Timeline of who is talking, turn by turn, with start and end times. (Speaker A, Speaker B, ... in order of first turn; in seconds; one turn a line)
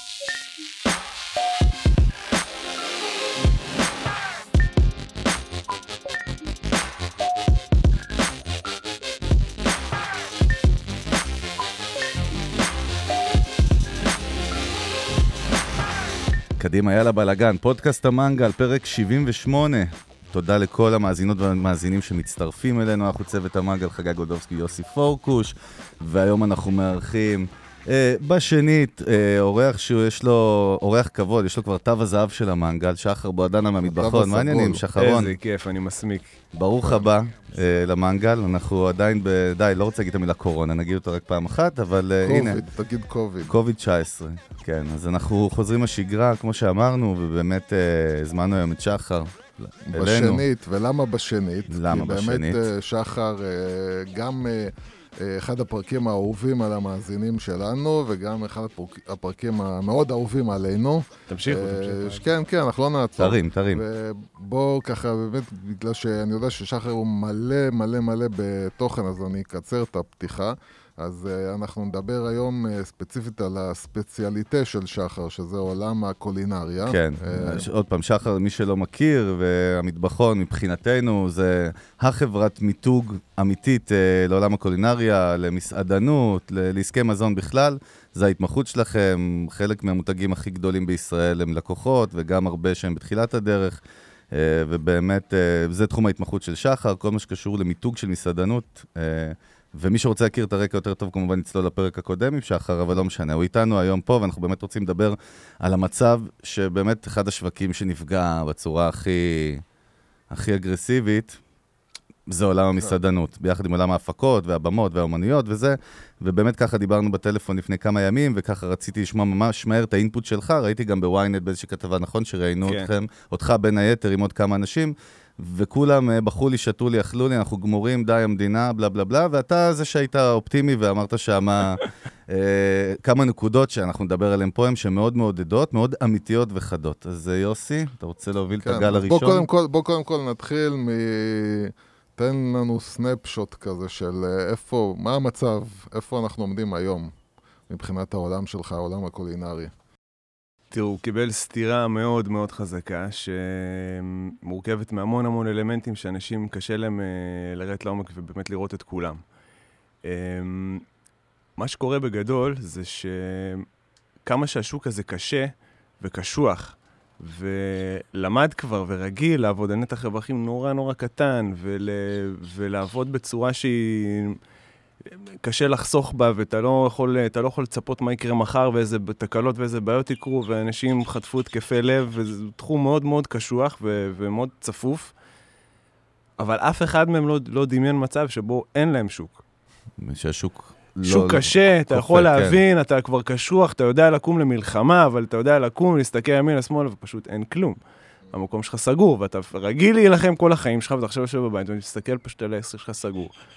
Speaker A: 16.6-35.3
Speaker B: 33.9-34.8
Speaker C: 35.0-36.4
Speaker A: 36.5-42.6
Speaker B: 42.2-43.5
Speaker A: 43.5-50.5
Speaker B: 49.9-77.7
Speaker A: 51.7-52.7
Speaker C: 61.3-62.2
Speaker A: 63.2-63.8
Speaker A: 76.8-93.8
Speaker A: 94.3-109.6
Speaker A: 110.3-111.4
Speaker A: 112.3-139.5
Speaker C: 122.6-122.9
Speaker B: 138.6-147.1
Speaker B: 147.7-149.7
Speaker C: 150.7-159.2
Speaker C: 160.0-160.8
Speaker C: 161.6-163.7
Speaker C: 164.2-174.4
Speaker C: 175.1-185.1
Speaker C: 186.4-189.4
Speaker A: 190.0-192.6
Speaker C: 191.0-197.8
Speaker C: 198.3-203.3